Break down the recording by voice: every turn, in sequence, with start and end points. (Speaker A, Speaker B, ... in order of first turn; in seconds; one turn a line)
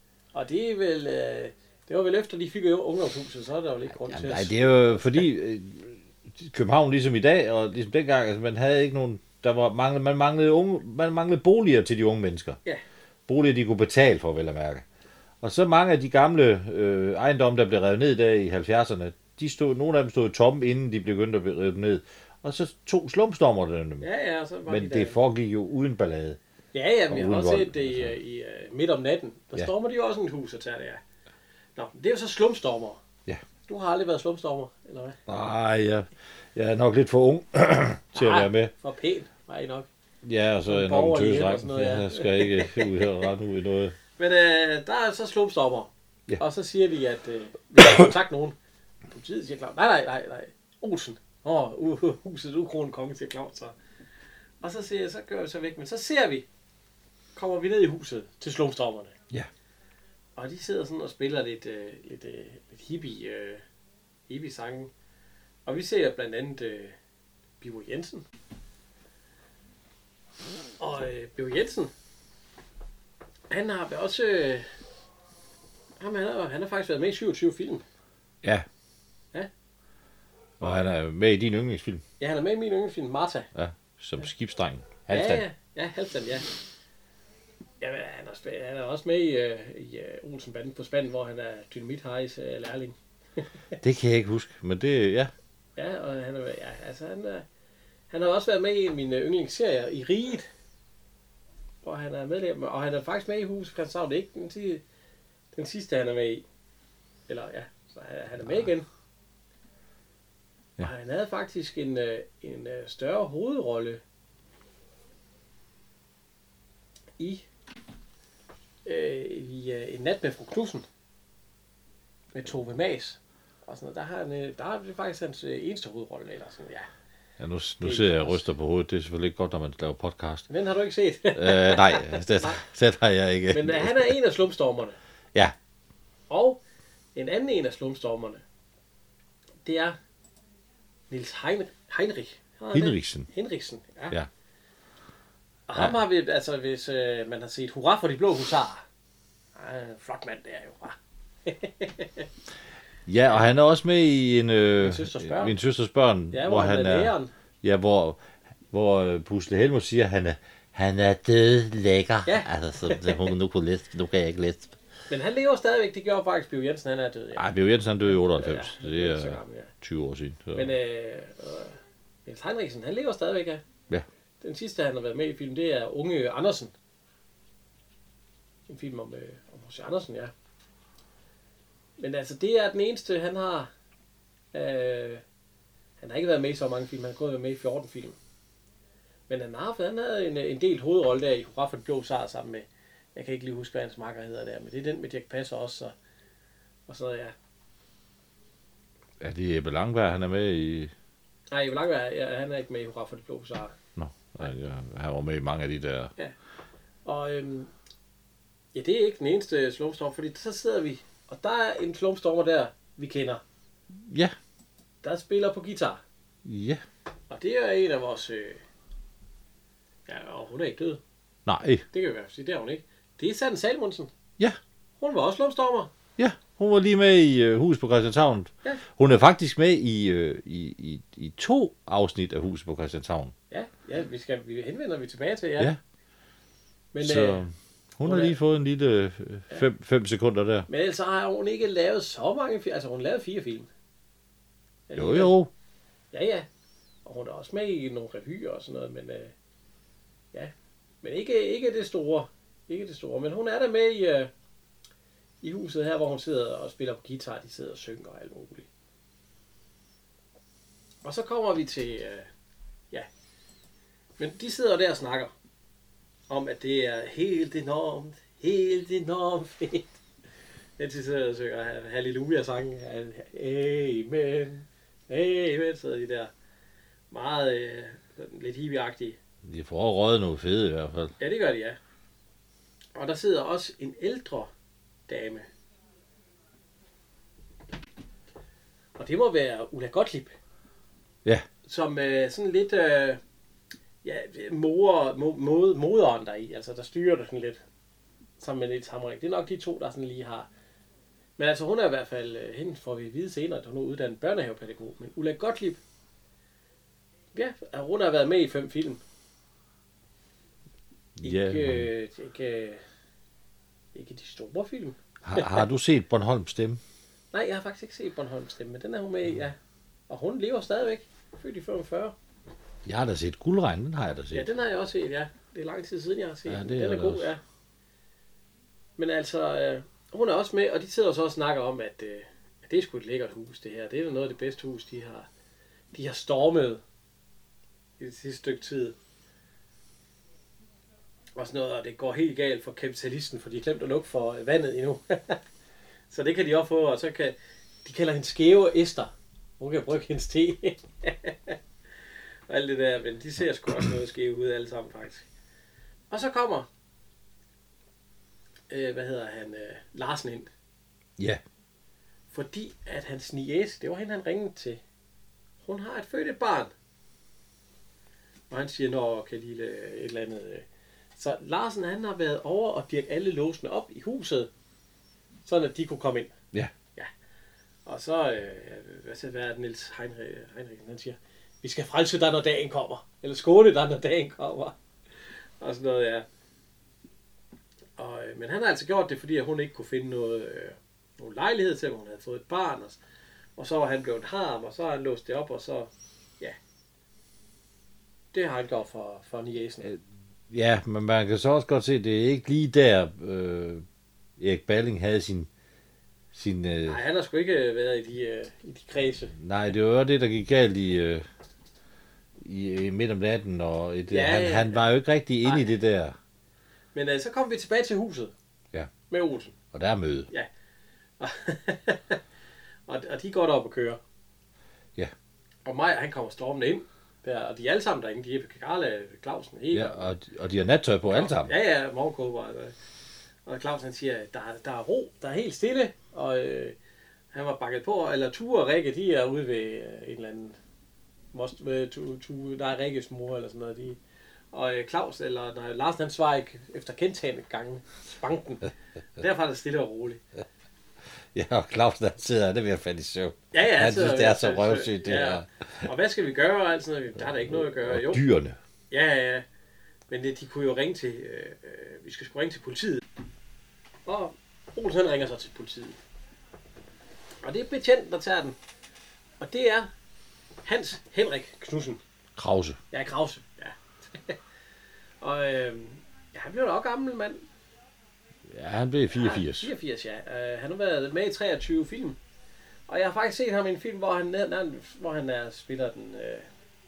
Speaker A: 0.3-5.2
Speaker B: 4.0-12.6
Speaker B: 13.3-14.8
Speaker B: 15.4-24.0
Speaker A: 24.0-25.1
Speaker B: 24.7-26.4
Speaker A: 26.7-31.0
Speaker B: 27.1-28.1
Speaker A: 31.8-33.0
Speaker A: 33.6-35.2
Speaker B: 35.3-38.7
Speaker A: 38.1-39.9
Speaker B: 40.2-43.9
Speaker A: 40.7-43.1
Speaker A: 44.2-48.5
Speaker A: 49.1-53.7
Speaker A: 54.6-56.5
Speaker A: 57.3-59.1
Speaker A: 60.4-63.6
Speaker A: 64.3-64.9
Speaker A: 65.7-67.0
Speaker A: 67.6-68.2
Speaker A: 70.8-71.9
Speaker A: 73.5-74.7
Speaker A: 76.0-77.8
Speaker B: 80.6-82.0
Speaker A: 80.6-80.9
Speaker A: 82.2-83.5
Speaker B: 83.5-85.4
Speaker A: 85.1-86.5
Speaker A: 87.8-93.5
Speaker B: 93.8-95.3
Speaker A: 95.8-97.4
Speaker A: 98.1-100.5
Speaker A: 101.8-104.8
Speaker A: 105.5-106.4
Speaker A: 107.3-108.9
Speaker A: 110.8-114.0
Speaker A: 117.2-117.5
Speaker A: 118.8-120.8
Speaker A: 122.3-126.9
Speaker B: 127.4-130.5
Speaker A: 127.8-128.4
Speaker A: 130.5-132.6
Speaker B: 131.3-134.1
Speaker A: 133.5-135.0
Speaker A: 136.3-136.6
Speaker A: 137.1-138.4
Speaker A: 139.6-140.0
Speaker A: 141.1-144.2
Speaker B: 142.7-143.3
Speaker A: 145.7-148.8
Speaker A: 149.6-152.2
Speaker B: 153.1-158.2
Speaker A: 154.8-155.6
Speaker A: 156.3-157.3
Speaker B: 158.7-164.8
Speaker A: 162.2-163.3
Speaker A: 165.1-167.4
Speaker B: 167.3-170.7
Speaker A: 168.1-169.7
Speaker A: 170.5-173.6
Speaker A: 174.4-176.7
Speaker A: 178.7-180.3
Speaker A: 182.0-183.7
Speaker A: 184.5-185.2
Speaker A: 186.0-188.2
Speaker A: 189.3-195.9
Speaker A: 196.9-197.3
Speaker B: 199.2-200.9
Speaker A: 201.5-203.8
Speaker B: 203.9-206.1
Speaker A: 207.0-207.7
Speaker A: 208.7-213.4
Speaker B: 213.9-214.3
Speaker A: 215.0-216.0
Speaker B: 216.4-216.8
Speaker A: 217.3-218.6
Speaker A: 220.1-221.0
Speaker B: 221.4-221.8
Speaker A: 221.9-224.1
Speaker A: 225.0-225.9
Speaker B: 226.2-233.3
Speaker A: 233.5-235.7
Speaker A: 236.9-237.4
Speaker B: 237.0-240.7
Speaker A: 238.0-238.4
Speaker A: 240.7-243.7
Speaker A: 244.9-245.3
Speaker B: 244.9-245.5
Speaker A: 246.1-246.4
Speaker A: 247.0-249.3
Speaker A: 250.3-254.3
Speaker A: 255.4-258.7
Speaker A: 261.0-262.3
Speaker A: 264.2-265.3
Speaker A: 266.3-270.0
Speaker A: 270.8-276.3
Speaker A: 277.1-279.2
Speaker B: 279.4-281.1
Speaker A: 281.2-281.8
Speaker A: 282.9-284.5
Speaker A: 285.1-285.4
Speaker A: 288.9-290.3
Speaker A: 291.6-293.2
Speaker A: 294.0-297.6
Speaker A: 298.4-300.5
Speaker A: 301.4-305.8
Speaker A: 307.3-309.0
Speaker B: 311.2-311.9
Speaker A: 311.2-312.8
Speaker A: 313.9-315.7
Speaker B: 315.2-316.8
Speaker A: 317.3-319.6
Speaker A: 320.1-322.1
Speaker B: 322.8-324.5
Speaker A: 324.3-327.4
Speaker B: 326.5-327.3
Speaker A: 329.0-335.3
Speaker A: 335.9-336.8
Speaker A: 338.0-338.9
Speaker A: 341.4-345.4
Speaker A: 346.1-351.6
Speaker A: 352.5-355.3
Speaker A: 356.1-356.7
Speaker A: 358.7-360.5
Speaker A: 362.3-364.8
Speaker A: 365.6-366.7
Speaker A: 368.5-374.5
Speaker A: 375.4-376.3
Speaker A: 377.9-384.7
Speaker A: 385.6-386.2
Speaker A: 388.0-393.0
Speaker A: 393.6-396.6
Speaker A: 398.3-399.9
Speaker B: 399.8-403.8
Speaker B: 404.4-405.5
Speaker B: 406.3-407.0
Speaker A: 406.9-409.3
Speaker B: 409.4-411.2
Speaker B: 412.4-416.1
Speaker A: 414.1-414.8
Speaker A: 415.4-415.7
Speaker A: 416.9-418.3
Speaker A: 419.1-419.6
Speaker B: 419.7-420.3
Speaker A: 421.2-422.2
Speaker A: 422.9-424.0
Speaker A: 425.6-430.0
Speaker B: 429.7-431.5
Speaker A: 431.1-432.7
Speaker A: 433.4-436.8
Speaker A: 437.3-440.6
Speaker A: 441.3-444.0
Speaker A: 444.5-450.2
Speaker B: 451.3-455.9
Speaker A: 453.5-458.2
Speaker B: 457.4-458.6
Speaker A: 458.9-459.4
Speaker A: 460.1-463.0
Speaker A: 464.1-466.0
Speaker A: 467.4-468.6
Speaker A: 469.4-469.9
Speaker A: 470.6-472.0
Speaker B: 472.4-472.8
Speaker A: 472.9-474.4
Speaker A: 475.2-477.4
Speaker B: 478.5-479.7
Speaker A: 479.1-482.2
Speaker A: 482.9-486.4